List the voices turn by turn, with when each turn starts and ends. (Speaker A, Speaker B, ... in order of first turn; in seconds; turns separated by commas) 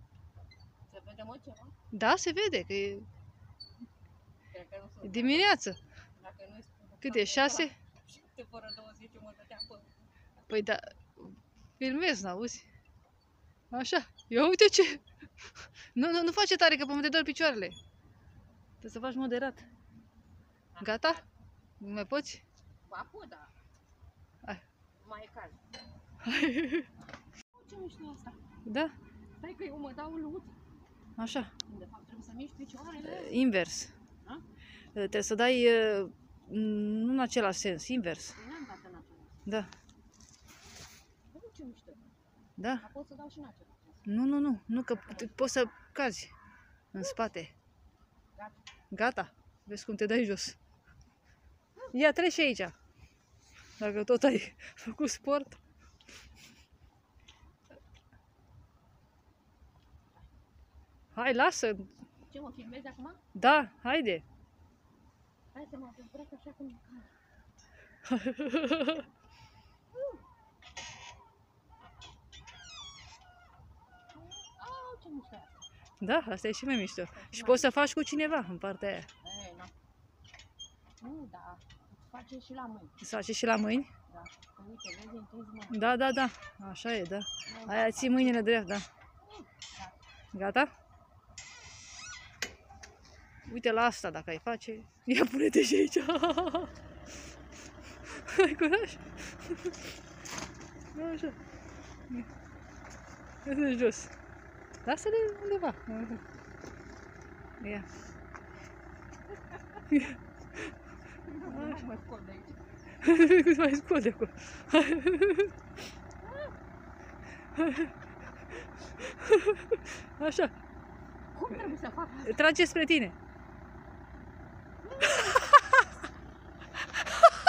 Speaker A: 0.9-1.8, Speaker B: 1.9-3.1, Speaker A: 4.5-5.5, Speaker B: 5.0-5.8, Speaker A: 6.2-9.9, Speaker B: 7.0-7.7, Speaker B: 10.5-12.7, Speaker B: 13.7-17.8, Speaker B: 18.8-19.7, Speaker A: 20.7-21.2, Speaker B: 20.8-21.2, Speaker B: 21.8-22.4, Speaker A: 22.9-23.5, Speaker A: 25.0-25.6, Speaker B: 26.2-26.9, Speaker A: 27.5-28.4, Speaker B: 28.6-28.9, Speaker A: 29.4-30.6, Speaker B: 31.2-31.5, Speaker A: 31.6-33.4, Speaker B: 33.0-33.9, Speaker B: 35.0-38.4, Speaker A: 38.3-39.4, Speaker A: 41.3-42.1, Speaker B: 42.6-42.8, Speaker A: 42.8-44.1, Speaker B: 44.1-46.3, Speaker A: 45.1-45.3, Speaker B: 46.9-47.5, Speaker B: 48.9-50.6, Speaker B: 51.9-52.7, Speaker B: 53.8-55.6, Speaker B: 61.1-61.9, Speaker A: 62.3-63.2, Speaker B: 63.4-64.2, Speaker A: 65.5-67.1, Speaker B: 68.1-69.0, Speaker A: 69.9-70.2, Speaker A: 74.1-75.6, Speaker B: 76.0-79.1, Speaker A: 77.2-77.7, Speaker A: 79.2-79.7, Speaker A: 81.0-83.0, Speaker B: 83.0-83.9, Speaker A: 84.1-85.9, Speaker B: 85.7-88.9, Speaker A: 87.5-88.5, Speaker A: 89.2-90.0, Speaker B: 90.3-90.7, Speaker B: 93.5-96.7, Speaker B: 98.1-99.9, Speaker B: 100.9-101.4, Speaker B: 103.5-104.1, Speaker B: 104.8-106.2, Speaker B: 107.6-107.9, Speaker B: 109.9-110.2, Speaker A: 111.1-112.6, Speaker B: 111.5-111.8, Speaker B: 113.0-115.5, Speaker B: 117.6-117.9, Speaker B: 119.0-120.5, Speaker A: 121.3-122.5, Speaker B: 122.2-123.2, Speaker A: 124.8-125.6